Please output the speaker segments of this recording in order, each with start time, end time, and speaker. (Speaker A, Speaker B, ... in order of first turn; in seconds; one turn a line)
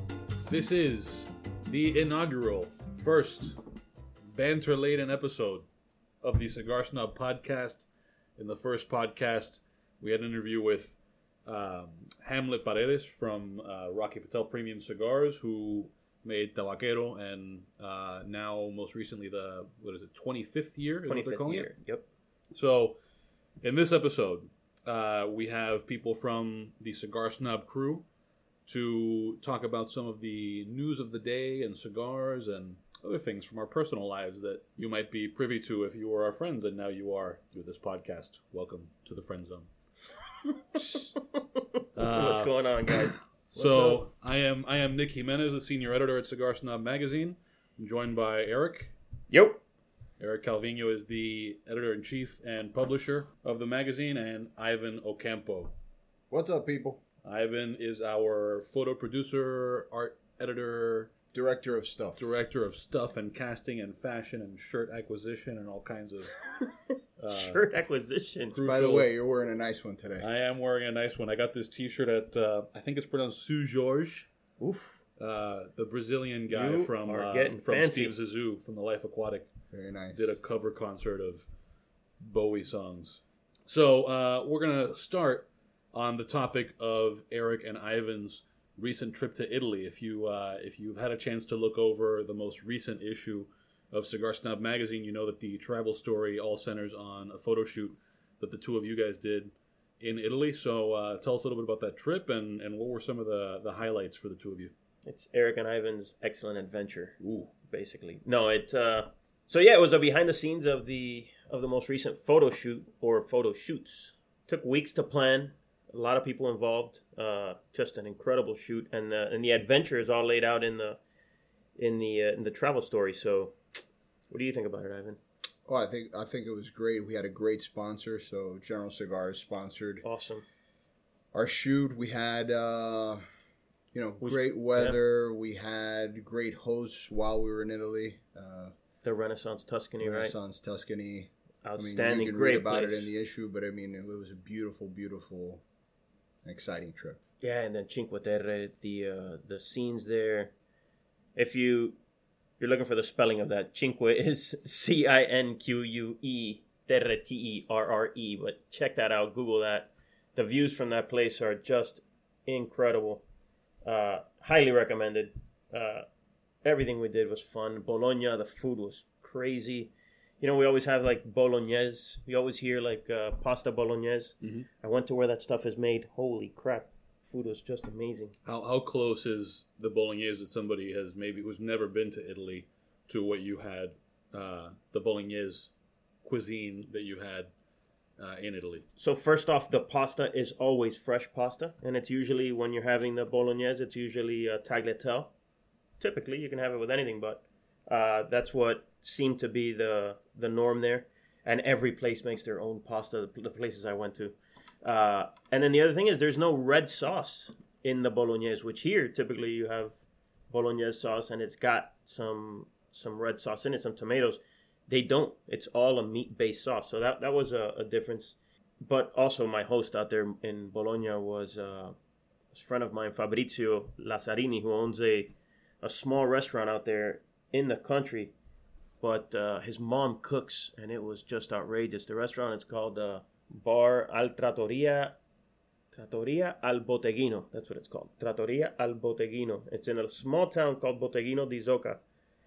Speaker A: 0.5-3.6
Speaker A: 4.3-5.7
Speaker A: 6.2-21.7
Speaker B: 21.1-22.1
Speaker A: 22.5-23.0
Speaker A: 23.6-28.1
Speaker A: 28.7-39.7
Speaker B: 40.8-43.3
Speaker A: 42.0-48.9
Speaker C: 43.5-44.0
Speaker B: 49.3-49.6
Speaker A: 50.2-55.7
Speaker C: 56.3-57.0
Speaker A: 57.2-61.1
Speaker C: 61.3-62.3
Speaker A: 62.2-66.4
Speaker B: 66.5-68.6
Speaker A: 67.2-67.7
Speaker A: 68.5-69.1
Speaker C: 68.6-70.3
Speaker A: 70.2-74.3
Speaker B: 74.6-75.0
Speaker A: 75.2-79.5
Speaker B: 76.5-78.1
Speaker C: 79.7-80.4
Speaker A: 80.1-81.5
Speaker A: 82.2-104.7
Speaker B: 105.0-121.0
Speaker A: 107.2-107.5
Speaker B: 121.8-123.6
Speaker B: 124.3-125.2
Speaker C: 125.7-130.1
Speaker B: 130.0-130.4
Speaker C: 131.3-133.2
Speaker C: 133.9-138.7
Speaker B: 134.2-135.0
Speaker B: 139.0-140.3
Speaker C: 140.0-145.6
Speaker B: 141.7-143.1
Speaker C: 146.4-147.2
Speaker B: 147.4-150.5
Speaker B: 151.4-152.0
Speaker B: 152.6-163.2
Speaker B: 163.8-166.1
Speaker B: 166.6-178.3
Speaker A: 174.4-174.7
Speaker A: 178.4-185.7
Speaker A: 186.2-187.5
Speaker A: 188.2-188.9
Speaker B: 189.0-195.3
Speaker B: 196.0-221.9
Speaker B: 222.5-228.3
Speaker B: 229.0-235.2
Speaker B: 235.9-242.0